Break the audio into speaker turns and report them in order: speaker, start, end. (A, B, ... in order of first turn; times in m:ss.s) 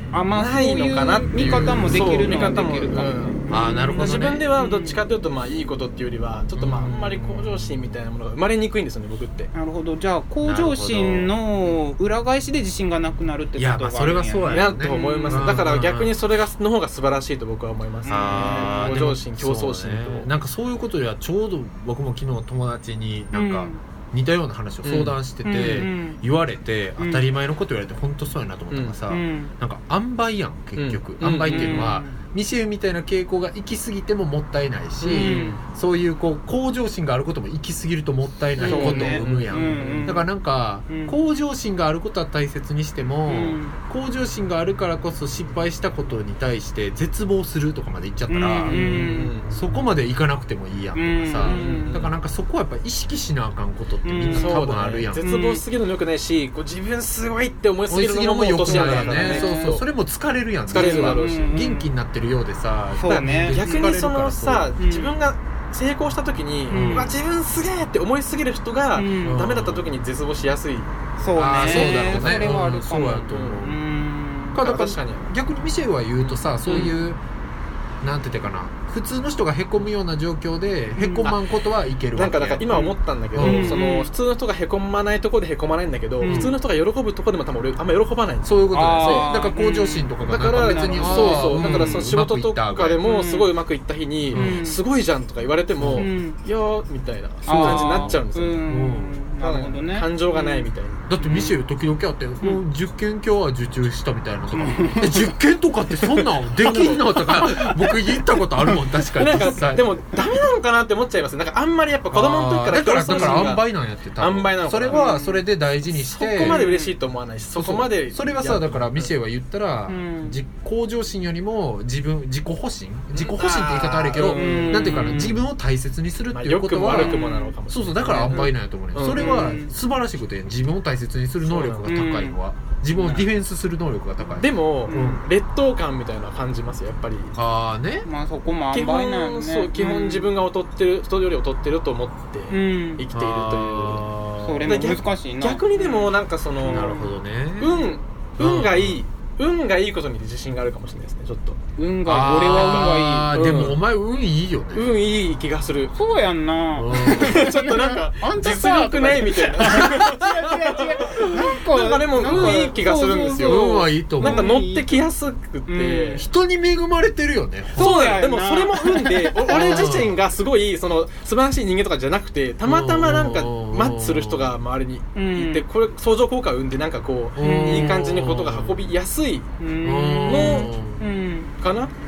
0:00.1-0:05.0 A
0:00.3-0:03.4 B
0:03.5-0:04.5 C
0:04.0-0:09.5 B
0:06.6-0:07.8 C
0:09.5-0:15.6 A
0:10.4-0:11.3 C
0:13.6-0:16.2 C
0:14.5-0:20.3 B
0:18.0-0:19.0 A
0:18.1-0:55.2 C
0:23.3-0:23.8 A
0:24.8-0:25.2 B
0:25.4-0:26.2 A
0:27.0-0:27.3 A
0:28.7-0:29.0 B
0:29.1-0:29.5 A
0:30.8-0:31.9 B
0:31.5-0:32.2 A
0:35.0-0:35.6 B
0:35.1-0:35.6 A
0:38.6-0:40.3 A
0:38.6-0:40.2 B
0:40.9-0:41.2 A
0:43.3-0:43.8 A
0:48.3-0:49.4 A
0:48.7-0:49.5 B
0:51.0-0:52.0 A
0:51.4-0:52.1 B
0:54.0-0:55.6 A
0:54.2-0:59.8 B
0:57.9-1:04.7 C
0:58.6-0:59.8 A
1:00.7-1:01.6 B
1:00.7-1:01.9 A
1:03.0-1:04.0 A
1:03.1-1:10.9 B
1:04.8-1:05.2 A
1:06.7-1:07.1 A
1:06.7-1:07.2 C
1:09.0-1:09.4 A
1:09.2-1:09.9 C
1:11.2-1:14.6 A
1:11.4-1:13.8 C
1:11.6-1:12.6 B
1:13.3-1:13.7 B
1:14.5-1:17.2 C
1:14.6-1:15.3 B
1:16.2-1:16.9 B
1:16.7-1:17.0 A
1:18.0-1:23.8 C
1:21.0-1:21.3 A
1:22.2-1:29.4 B
1:22.7-1:24.1 A
1:26.2-1:26.6 A
1:26.2-1:26.6 C
1:28.4-1:33.1 C
1:28.7-1:32.1 A
1:30.3-1:38.6 B
1:33.0-1:33.5 A
1:34.3-1:34.6 C
1:34.3-1:34.8 A
1:35.8-1:36.1 C
1:36.0-1:36.4 A
1:37.4-1:41.6 A
1:37.5-1:39.2 C
1:39.4-1:41.0 B
1:41.1-1:50.0 C
1:44.5-1:45.4 A
1:46.0-1:48.0 B
1:49.1-1:53.7 B
1:52.1-1:56.6 C
1:53.1-1:53.6 A
1:54.2-1:55.1 B
1:54.9-1:55.4 A
1:55.9-1:59.1 B
1:56.4-1:57.0 A
1:57.6-2:15.2 C
1:59.9-2:00.4 A
2:03.1-2:05.4 B
2:04.2-2:05.4 A
2:06.3-2:09.6 B
2:06.9-2:07.6 A
2:09.1-2:09.7 A
2:11.4-2:12.1 B
2:11.9-2:12.4 A
2:14.4-2:17.4 B
2:14.9-2:15.2 A
2:17.4-2:18.1 C
2:18.0-2:20.3 A
2:18.7-2:24.1 B
2:22.5-2:23.0 A
2:23.1-2:24.8 C
2:24.4-2:27.1 A
2:24.7-2:27.0 B
2:26.6-2:27.9 C
2:27.6-2:31.6 B
2:27.7-2:28.0 A
2:28.4-2:29.0 C
2:31.8-2:33.4 A
2:32.1-2:35.0 C
2:32.4-2:33.8 B
2:34.7-2:35.9 B
2:35.9-2:45.0 A
2:36.8-2:37.5 C
2:37.0-2:46.2 B
2:39.6-2:40.2 C
2:42.2-2:42.8 C
2:43.4-2:44.6 C
2:45.7-2:46.2 A
2:46.2-2:48.2 C
2:47.8-2:50.0 A
2:47.8-2:59.5 B
2:49.5-2:50.2 C
2:52.6-2:54.6 C
2:55.2-2:55.7 A
2:57.4-2:58.9 C
2:57.4-2:58.0 A
2:59.6-3:01.5 A
2:59.8-3:01.0 C
3:00.3-3:00.8 B
3:01.6-3:01.9 B